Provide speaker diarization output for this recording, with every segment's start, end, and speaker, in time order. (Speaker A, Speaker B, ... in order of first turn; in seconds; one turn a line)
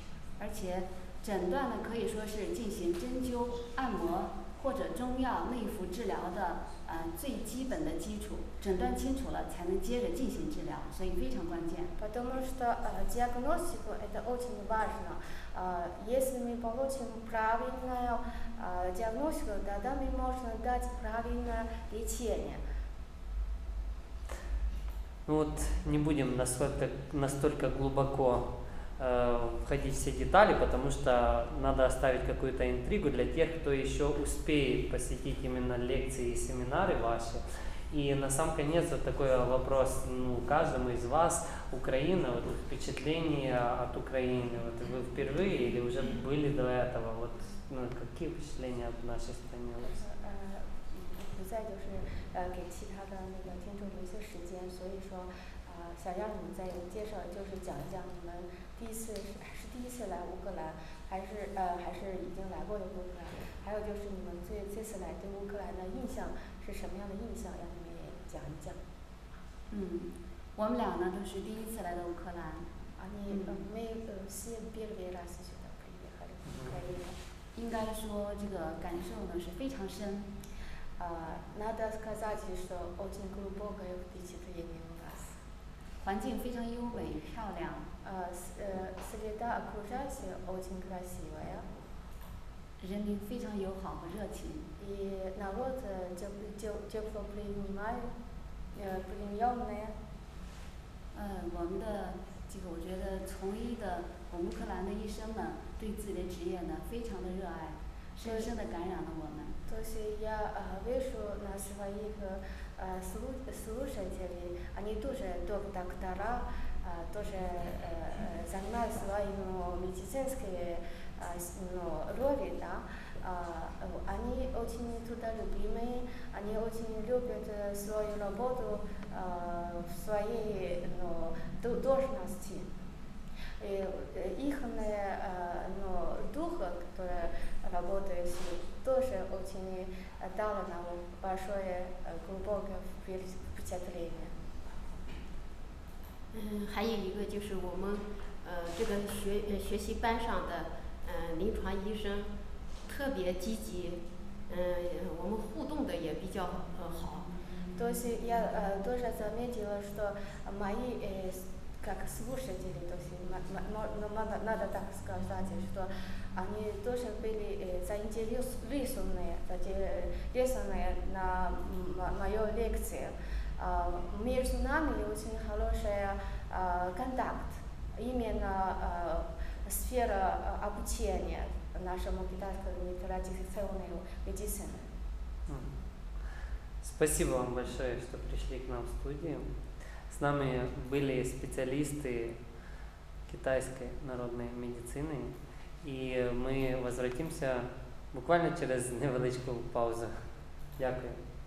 Speaker A: 0.4-11.9
Speaker B: 12.0-22.6
Speaker C: 25.2-49.9
Speaker B: 49.8-68.8
Speaker A: 69.7-72.7
Speaker B: 73.0-77.2
Speaker A: 73.3-73.6
Speaker C: 76.5-76.8
Speaker A: 77.5-80.3
Speaker B: 81.0-85.3
Speaker A: 86.0-87.9
Speaker B: 88.0-91.7
Speaker A: 92.8-94.7
Speaker B: 94.8-98.1
Speaker B: 98.7-99.9
Speaker A: 101.1-109.5
Speaker B: 108.2-108.5
Speaker B: 109.7-132.7
Speaker B: 133.6-144.5
Speaker D: 146.3-152.3
Speaker D: 152.9-157.3
Speaker B: 157.7-184.9
Speaker C: 185.5-185.7
Speaker C: 186.8-189.5
Speaker C: 190.1-192.4
Speaker C: 193.3-200.1
Speaker C: 200.8-201.2